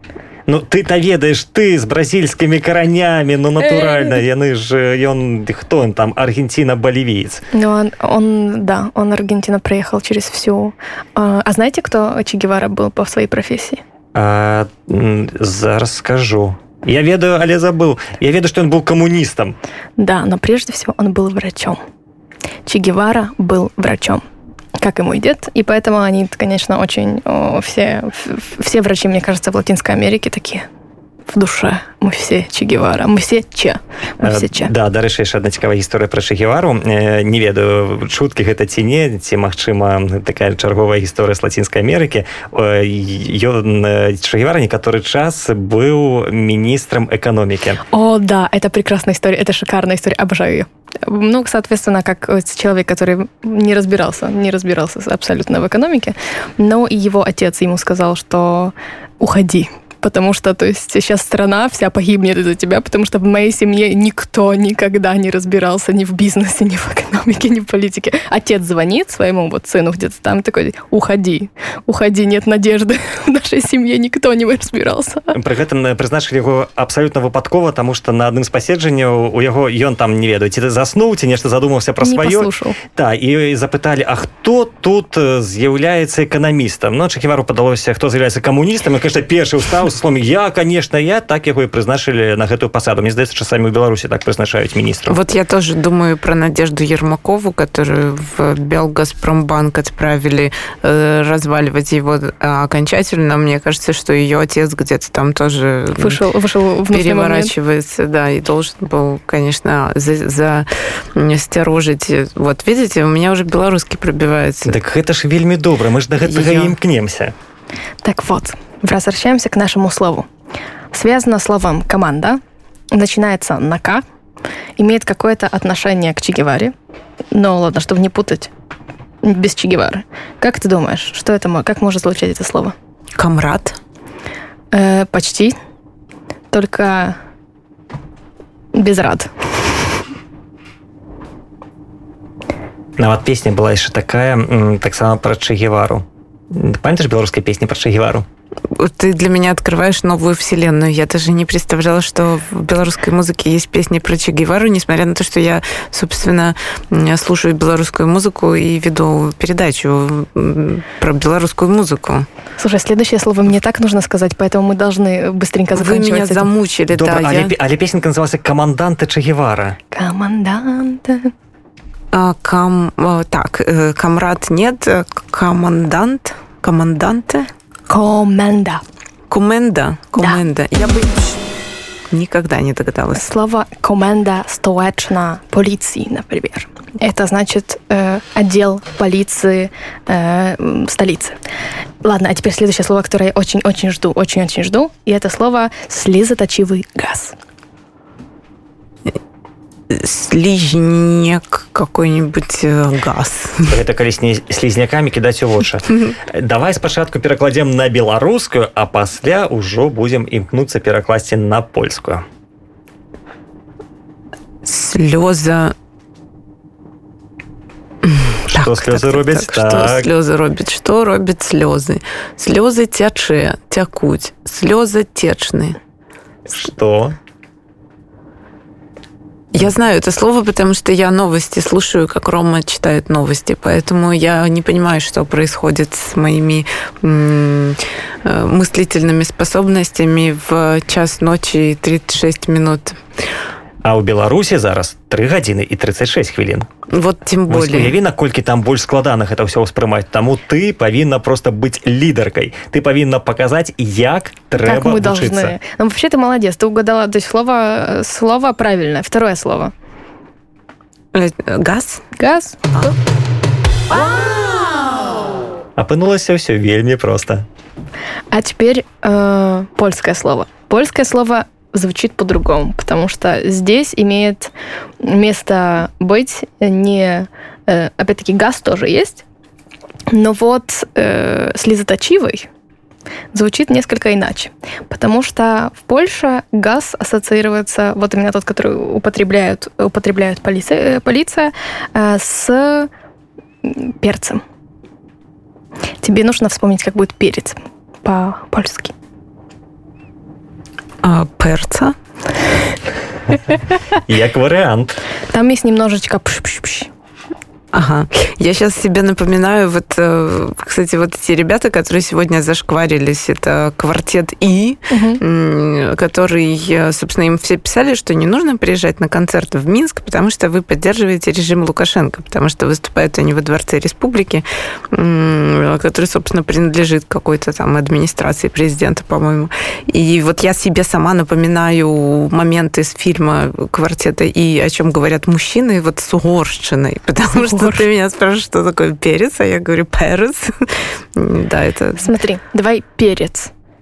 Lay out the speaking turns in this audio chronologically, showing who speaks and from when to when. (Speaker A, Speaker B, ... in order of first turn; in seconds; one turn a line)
Speaker A: 0.5-7.4
Speaker B: 3.7-4.2
Speaker B: 7.5-13.8
Speaker A: 14.1-19.6
Speaker B: 20.0-21.8
Speaker B: 22.6-24.2
Speaker B: 24.8-30.6
Speaker B: 31.3-34.7
Speaker A: 34.2-47.8
Speaker B: 47.9-75.4
Speaker A: 75.3-95.2
Speaker B: 82.0-82.8
Speaker C: 95.1-106.2
Speaker B: 106.0-107.5
Speaker C: 106.9-114.7
Speaker A: 114.6-117.3
Speaker C: 116.2-116.7
Speaker B: 118.0-120.3
Speaker B: 120.9-122.4
Speaker B: 122.9-124.0
Speaker B: 124.8-126.7
Speaker B: 127.3-128.5
Speaker B: 129.2-132.7
Speaker C: 133.2-133.8
Speaker B: 134.7-135.5
Speaker B: 136.5-137.2
Speaker B: 138.7-139.3
Speaker A: 143.0-148.2
Speaker C: 148.7-162.2
Speaker B: 162.6-166.5
Speaker C: 165.7-167.5
Speaker A: 166.9-169.8
Speaker B: 169.9-171.3
Speaker C: 172.1-177.5
Speaker B: 177.9-178.8
Speaker C: 179.3-181.4
Speaker C: 182.1-183.3
Speaker B: 183.1-191.4
Speaker B: 192.0-197.3
Speaker C: 199.9-203.8
Speaker A: 203.7-212.2
Speaker C: 214.6-215.7
Speaker C: 218.1-225.8
Speaker A: 218.5-220.1
Speaker A: 226.5-227.2
Speaker C: 229.5-243.0
Speaker A: 243.8-246.7
Speaker C: 246.9-247.9
Speaker A: 247.5-255.6
Speaker B: 254.6-259.7
Speaker C: 261.1-262.0
Speaker B: 262.2-262.9
Speaker A: 265.8-267.4
Speaker B: 268.3-279.2
Speaker B: 280.1-282.5
Speaker B: 283.3-292.9
Speaker B: 293.6-294.4
Speaker B: 296.0-298.9
Speaker C: 301.0-301.9
Speaker A: 303.9-305.0
Speaker B: 305.3-306.9
Speaker C: 307.7-342.1
Speaker B: 314.9-315.2
Speaker B: 337.3-337.8
Speaker B: 342.0-343.5